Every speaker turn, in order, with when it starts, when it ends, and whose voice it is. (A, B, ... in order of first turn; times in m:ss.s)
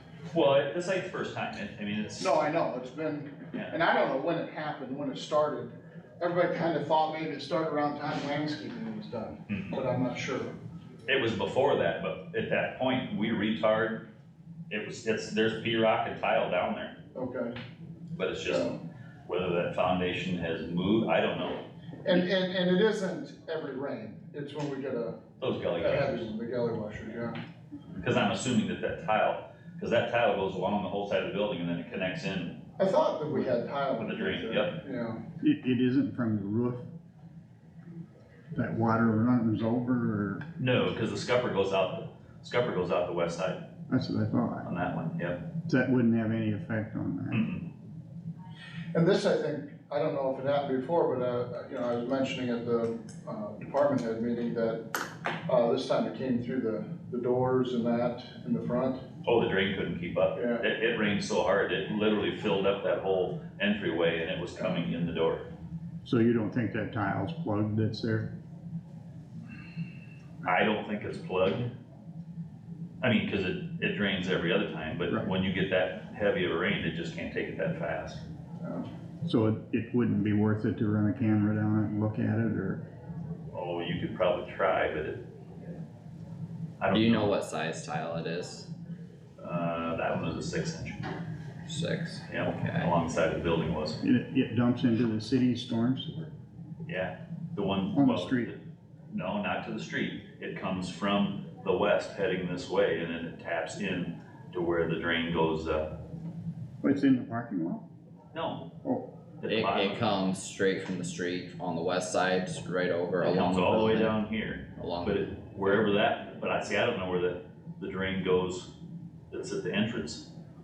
0:00.3-0:02.3 A
0:02.2-0:10.5 B
0:09.5-0:09.8 A
0:11.1-0:14.1 A
0:14.7-0:16.9 A
0:17.1-0:17.5 B
0:18.1-0:21.6 A
0:18.5-0:18.8 B
0:22.0-0:25.2 B
0:25.4-0:26.3 A
0:25.8-0:27.4 B
0:28.0-0:32.6 A
0:32.8-0:35.2 B
0:34.0-0:34.8 A
0:35.4-0:36.8 C
0:38.5-0:40.4 C
0:40.6-0:43.6 A
0:43.9-0:44.7 C
0:44.6-0:45.4 A
0:45.7-0:47.5 C
0:47.3-0:47.6 A
0:48.9-0:54.8 B
0:55.5-0:59.0 B
0:59.2-1:05.4 A
1:00.3-1:00.6 B
1:06.0-1:08.3 C
1:10.4-1:11.7 A
1:13.0-1:18.2 A
1:19.2-1:22.8 C
1:23.5-1:25.2 A
1:26.8-1:27.3 A
1:26.9-1:28.7 D
1:29.4-1:31.1 A
1:31.6-1:32.9 D
1:32.3-1:34.0 A
1:34.0-1:36.3 C
1:36.8-1:38.6 A
1:37.9-1:38.5 C
1:39.1-1:45.9 A
1:46.8-1:47.8 C
1:48.3-1:48.7 A
1:49.4-1:50.1 A
1:49.5-1:54.2 D
1:53.2-1:58.7 A
1:54.8-1:55.3 D
1:59.3-2:00.2 A